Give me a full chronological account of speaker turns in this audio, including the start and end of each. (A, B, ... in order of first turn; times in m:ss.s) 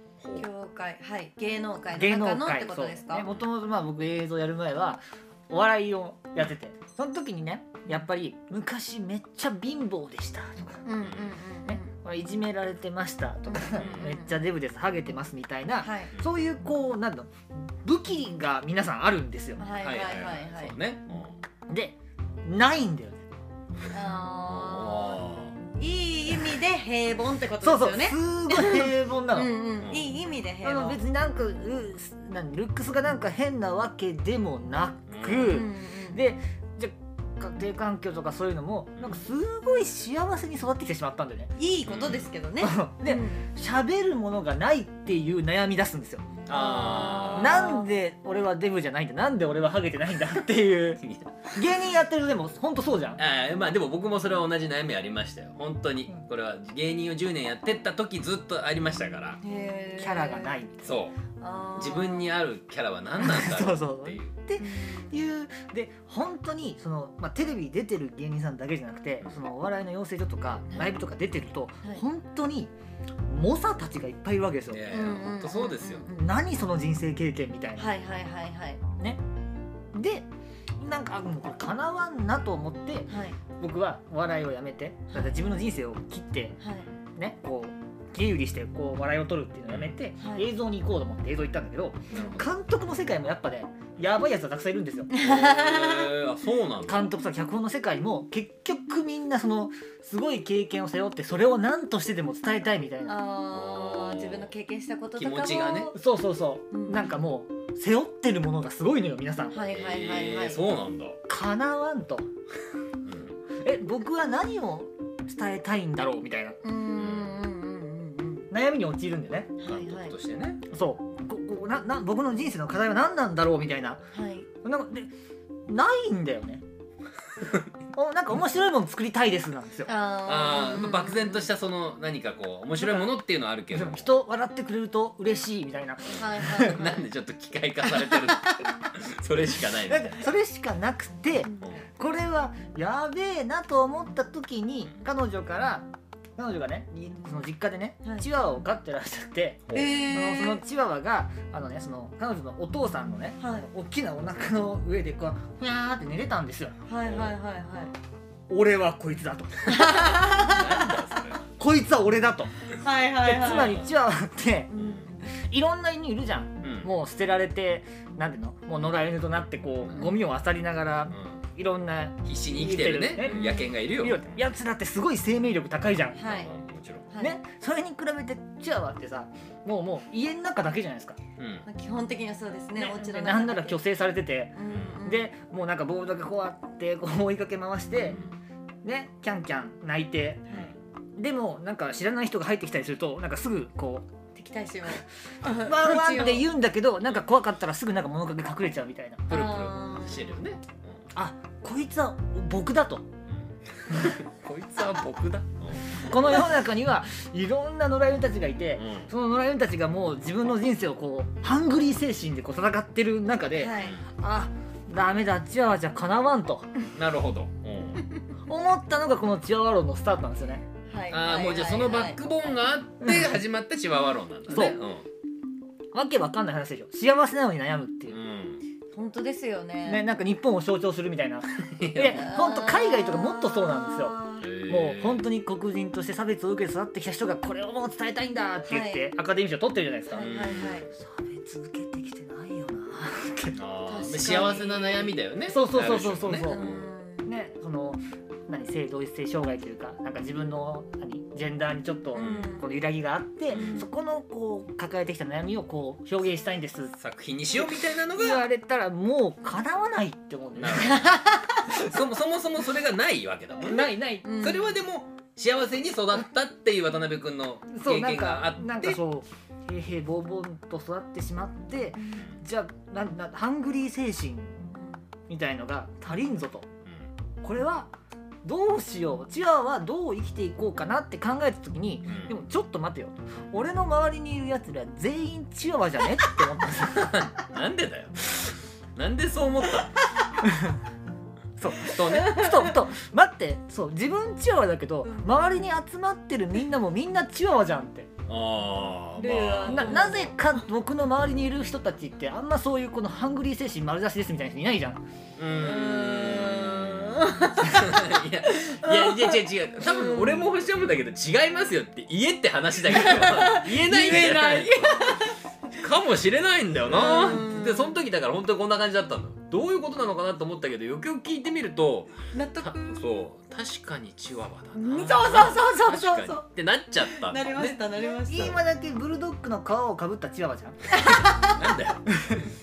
0:00.2-0:00.4 A
0:00.4-0:03.3 B
0:01.9-0:10.8 C
0:10.8-0:11.9 B
0:11.0-0:11.3 A
0:11.7-0:19.6 C
0:13.5-0:14.4 B
0:13.8-0:14.1 A
0:15.8-0:16.1 B
0:19.6-0:20.8 B
0:19.8-0:21.4 A
0:21.7-0:23.2 C
0:23.9-0:25.2 B
0:24.3-0:25.6 A
0:25.8-0:31.0 B
0:27.6-0:29.5 C
0:29.8-0:30.2 A
0:30.6-0:41.5 C
0:35.1-0:35.6 A
0:35.5-0:36.2 B
0:41.6-0:43.4 B
0:41.8-0:42.3 A
0:42.6-0:46.3 C
0:46.5-0:47.7 A
0:46.5-0:47.9 B
0:47.3-0:53.2 C
0:51.0-0:51.5 A
0:53.2-0:59.4 A
0:59.4-1:00.6 B
1:00.0-1:00.9 C
1:00.8-1:01.2 A
1:01.4-1:02.3 B
1:01.8-1:04.3 A
1:03.2-1:12.7 C
1:04.6-1:05.2 B
1:13.3-1:14.8 C
1:14.7-1:16.1 A
1:14.9-1:16.2 B
1:16.1-1:17.9 C
1:17.8-1:18.8 B
1:19.9-1:20.3 C
1:20.8-1:26.6 C
1:23.1-1:23.4 B
1:25.1-1:25.4 B
1:26.6-1:26.9 B
1:27.2-1:35.2 C
1:29.7-1:30.0 A
1:30.2-1:30.5 B
1:32.1-1:32.4 B
1:32.1-1:32.5 A
1:35.1-1:36.1 B
1:35.2-1:37.1 A
1:36.8-1:43.2 C
1:43.0-1:45.9 B
1:43.5-1:44.5 A
1:45.2-1:45.9 A
1:45.9-1:49.6 C
1:46.7-1:47.1 B
1:49.5-1:50.6 B
1:49.6-1:51.2 A
1:51.3-1:52.3 C
1:53.0-1:53.3 A
1:53.6-1:56.6 C
1:56.6-1:58.5 B
1:56.9-1:57.4 A
1:58.5-1:59.6 C
1:59.6-2:00.1 B
1:59.6-2:00.7 A
2:00.7-2:04.0 C
2:04.1-2:04.5 B
2:04.6-2:05.1 C
2:05.7-2:06.6 C
2:07.9-2:09.9 C
2:09.9-2:11.4 B
2:10.2-2:14.1 A
2:12.8-2:13.1 C
2:13.7-2:16.8 C
2:16.1-2:17.0 B
2:16.5-2:20.3 A
2:19.8-2:25.9 C
2:26.4-2:36.8 C
2:29.7-2:30.0 A
2:29.7-2:30.6 B
2:33.4-2:33.7 B
2:36.9-2:37.9 B
2:37.0-2:37.3 A
2:38.5-2:40.2 C
2:39.7-2:40.9 B
2:40.3-2:41.4 A
2:41.6-2:42.5 C
2:42.7-2:43.8 B
2:43.2-2:44.7 C
2:43.4-2:43.9 A
2:44.7-2:45.0 B
2:44.8-2:45.2 A
2:45.3-2:56.3 C
2:46.6-2:46.9 A
2:51.1-2:51.4 A
2:52.2-2:54.4 A
2:53.2-2:53.7 B
2:56.1-2:56.5 B
2:56.2-2:57.1 A
2:57.1-2:57.4 B
2:57.2-3:01.2 C
3:01.4-3:01.6 A
3:01.6-3:03.8 B
3:02.8-3:08.2 C
3:04.6-3:05.3 B
3:04.7-3:05.0 A
3:08.1-3:08.3 A
3:08.8-3:10.5 C
3:10.5-3:10.7 B
3:11.2-3:14.1 C
3:14.3-3:16.5 B
3:15.4-3:19.3 C
3:19.3-3:20.3 B
3:19.3-3:21.0 A
3:21.1-3:23.1 C
3:23.3-3:26.5 A
3:26.0-3:36.7 C
3:28.8-3:29.1 A
3:33.6-3:34.0 B
3:36.9-3:38.1 A
3:38.5-3:40.6 C
3:40.9-3:42.2 B
3:41.1-3:45.0 A
3:43.0-3:43.4 C
3:44.5-3:44.8 C
3:45.9-3:48.2 C
3:48.1-3:48.6 A
3:48.9-3:50.0 B
3:49.8-4:00.3 C
3:51.6-3:52.2 A
3:52.1-3:54.5 B
3:54.4-3:55.2 A
3:58.6-3:59.1 B
4:00.1-4:00.9 B
4:00.2-4:00.8 A
4:00.9-4:03.6 C
4:03.6-4:06.9 A
4:03.9-4:05.1 B
4:05.5-4:06.6 C
4:06.5-4:07.3 B
4:07.2-4:17.0 C
4:12.1-4:12.6 B
4:12.1-4:12.6 A
4:13.5-4:13.8 A
4:13.5-4:13.9 B
4:17.0-4:18.4 A
4:17.6-4:21.1 C
4:20.6-4:29.0 A
4:20.7-4:21.8 B
4:23.6-4:24.4 C
4:24.2-4:24.8 B
4:27.7-4:34.6 C
4:34.7-4:35.0 B
4:35.3-4:36.7 C
4:37.4-4:37.9 C
4:38.4-4:47.3 C
4:42.1-4:42.3 A
4:46.9-4:49.9 A
4:50.4-4:50.8 C
4:51.6-4:58.1 C
4:51.8-4:52.4 A
4:52.1-4:52.7 B
4:55.0-4:55.4 B
4:58.3-5:00.3 A
4:59.2-5:00.3 B
4:59.7-5:05.0 C
5:05.4-5:27.8 A
5:05.6-5:10.5 B
5:12.9-5:15.4 B
5:16.8-5:18.0 B
5:22.3-5:23.0 B
5:24.7-5:26.4 B
5:27.0-5:28.6 B
5:28.3-5:30.8 C
5:28.3-5:28.6 A
5:30.9-5:31.6 B
5:31.1-5:32.4 A